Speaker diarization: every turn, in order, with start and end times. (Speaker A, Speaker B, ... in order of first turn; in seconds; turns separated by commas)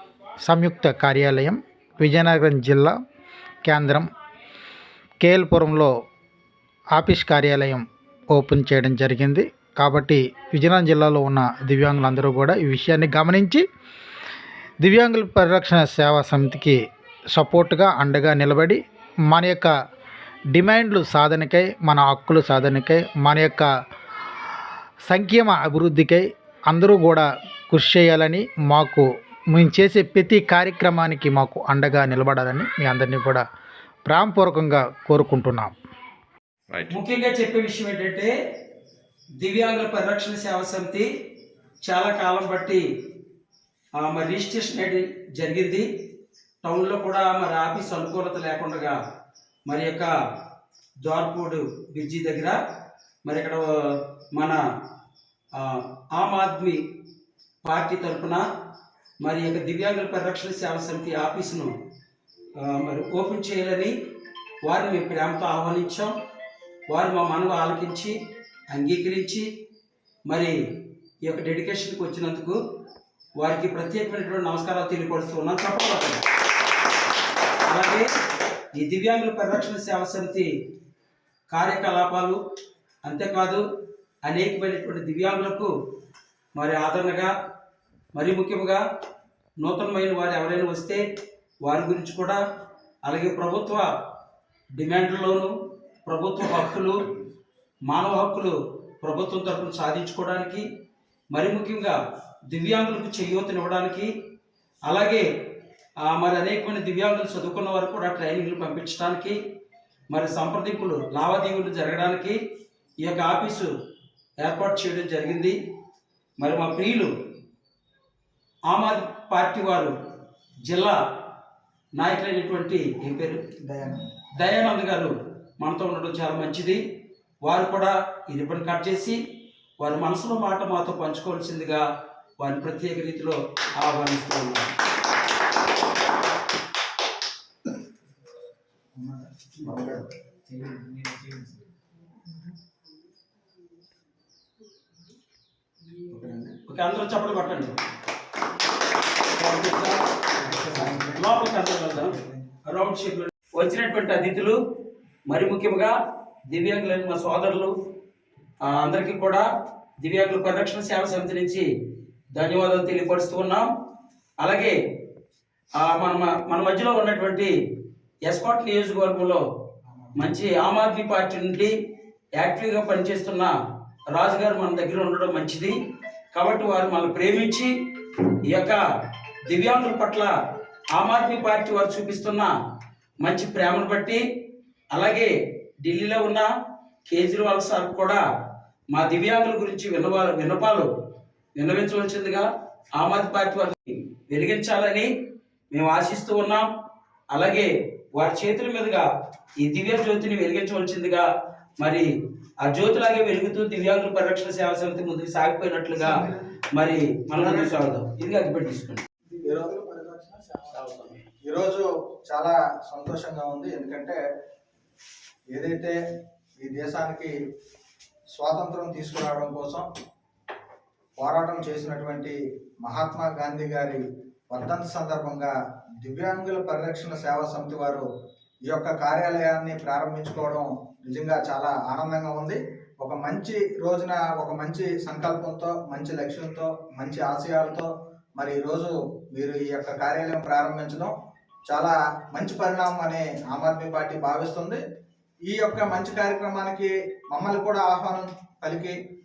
Speaker A: 0.4-2.9, Speaker A: 3.6-4.1, Speaker A: 5.2-5.9, Speaker A: 6.9-13.6, Speaker A: 14.8-16.8, Speaker A: 17.3-19.7, Speaker A: 20.5-23.7, Speaker A: 25.1-33.4, Speaker A: 34.0-35.7, Speaker B: 36.9-38.3, Speaker B: 39.4-41.1, Speaker B: 41.8-42.8, Speaker B: 44.0-45.9, Speaker B: 46.6-49.0, Speaker B: 49.7-50.1, Speaker B: 51.0-52.6, Speaker B: 53.2-54.6, Speaker B: 55.5-57.0, Speaker B: 57.6-58.4, Speaker B: 59.2-61.7, Speaker B: 62.5-63.9, Speaker B: 64.6-66.1, Speaker B: 66.9-68.1, Speaker B: 68.7-69.5, Speaker B: 70.3-72.6, Speaker B: 73.4-76.2, Speaker B: 77.6-78.1, Speaker B: 78.8-80.5, Speaker B: 81.5-82.4, Speaker B: 83.0-83.6, Speaker B: 84.2-85.7, Speaker B: 86.5-87.3, Speaker B: 88.1-88.8, Speaker B: 89.6-91.0, Speaker B: 91.6-92.4, Speaker B: 93.0-93.9, Speaker B: 94.8-95.5, Speaker B: 96.0-97.1, Speaker B: 97.9-100.7, Speaker B: 101.3-102.0, Speaker B: 102.5-104.1, Speaker B: 104.9-105.3, Speaker B: 106.1-109.4, Speaker B: 110.1-112.4, Speaker B: 113.0-113.7, Speaker B: 114.4-115.6, Speaker B: 116.4-117.1, Speaker B: 118.7-119.9, Speaker B: 120.7-121.0, Speaker B: 122.0-123.4, Speaker C: 123.7-124.0, Speaker B: 124.3-126.8, Speaker B: 127.4-129.2, Speaker B: 129.8-131.8, Speaker B: 132.4-134.7, Speaker C: 139.0-140.0, Speaker C: 140.5-141.1, Speaker B: 146.1-147.8, Speaker B: 149.3-154.6, Speaker C: 150.7-151.0, Speaker B: 155.3-155.9, Speaker B: 156.5-157.7, Speaker B: 158.6-159.5, Speaker B: 160.0-161.7, Speaker B: 162.3-163.7, Speaker B: 164.4-164.8, Speaker B: 165.8-167.5, Speaker B: 168.2-169.4, Speaker B: 170.1-171.7, Speaker B: 172.4-173.5, Speaker B: 174.1-175.8, Speaker B: 176.3-178.8, Speaker B: 179.5-180.3, Speaker B: 180.9-182.5, Speaker B: 183.2-184.2, Speaker B: 184.9-186.5, Speaker B: 187.1-188.2, Speaker B: 188.9-190.9, Speaker B: 191.6-192.4, Speaker B: 193.0-195.1, Speaker B: 195.7-196.7, Speaker B: 197.3-199.1, Speaker B: 199.6-201.2, Speaker B: 201.8-202.1, Speaker B: 202.6-209.1, Speaker A: 206.0-206.3, Speaker A: 209.3-210.6, Speaker C: 209.4-209.8, Speaker C: 210.7-214.2, Speaker C: 215.5-216.0, Speaker C: 216.6-217.3, Speaker C: 218.3-219.9, Speaker C: 221.2-228.1, Speaker C: 228.7-241.1, Speaker C: 241.7-244.8, Speaker C: 245.5-248.9